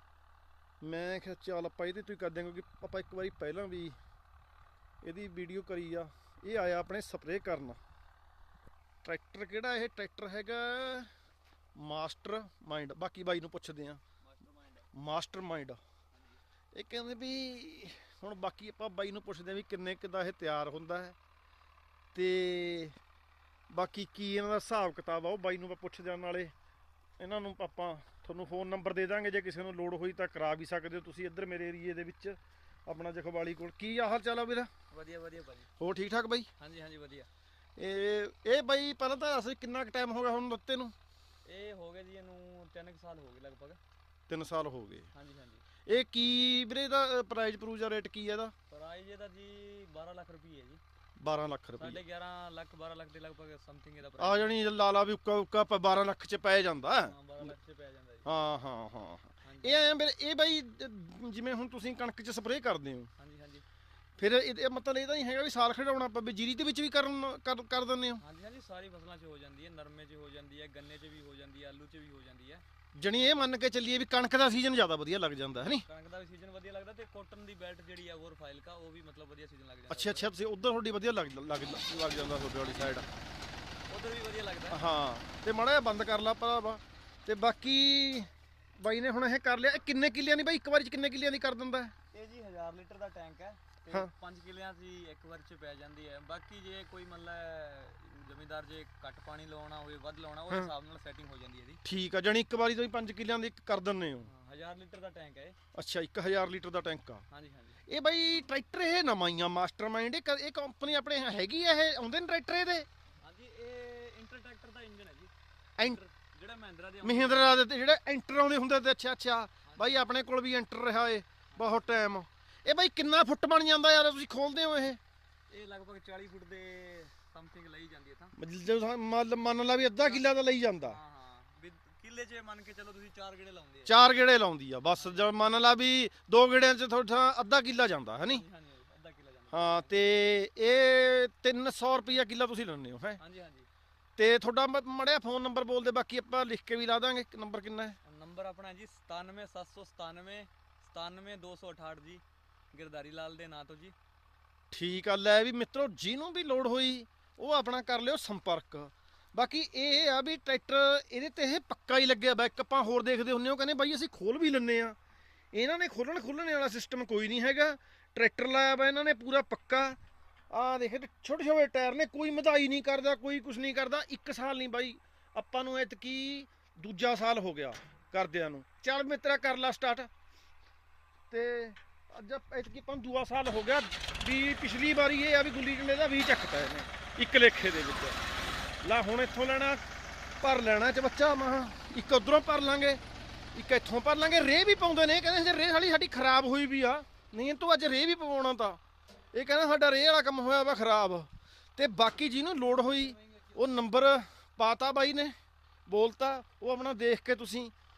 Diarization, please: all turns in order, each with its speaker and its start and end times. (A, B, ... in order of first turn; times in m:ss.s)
0:00.8-0:04.0 A
0:05.0-0:07.8 A
0:09.0-0:11.1 A
0:11.8-0:14.0 A
0:14.2-0:14.8 B
0:14.9-0:15.8 A
0:16.7-0:21.2 A
0:22.1-0:23.0 A
0:23.7-0:26.5 A
0:27.2-0:34.7 A
0:34.9-0:35.7 B
0:35.8-0:36.5 A
0:36.6-0:37.3 B
0:37.8-0:40.9 A
0:41.4-0:43.8 B
0:44.3-0:45.1 A
0:45.1-0:45.6 B
0:45.8-0:48.5 A
0:48.7-0:50.8 B
0:51.2-0:52.0 A
0:51.8-0:54.6 B
0:54.2-0:57.5 A
0:57.0-0:58.3 B
0:58.2-1:03.1 A
0:59.4-0:59.8 B
1:03.2-1:03.6 B
1:04.2-1:08.2 A
1:08.2-1:12.6 B
1:13.0-1:15.8 A
1:15.7-1:20.3 B
1:19.9-1:23.0 A
1:22.3-1:23.0 B
1:23.9-1:24.8 B
1:24.7-1:31.9 A
1:32.1-1:41.8 B
1:41.8-1:44.3 A
1:44.2-1:45.6 B
1:45.7-1:47.2 A
1:47.3-1:47.8 B
1:47.9-1:52.9 A
1:53.2-1:57.6 B
1:57.0-2:05.0 A
1:59.6-2:00.1 B
2:01.5-2:01.9 B
2:05.5-2:08.3 B
2:08.4-2:11.0 A
2:10.8-2:14.0 B
2:13.8-2:18.4 A
2:14.9-2:15.3 B
2:18.2-2:20.1 B
2:19.5-2:23.2 A
2:23.2-2:23.7 B
2:24.2-2:28.0 A
2:28.0-2:33.9 B
2:34.7-2:45.0 A
2:45.5-2:50.0 A
2:50.5-3:00.1 A
3:01.3-3:08.2 A
3:08.8-3:09.8 A
3:10.4-3:13.0 A
3:13.5-3:18.8 A
3:19.3-3:25.3 A
3:25.9-3:27.7 A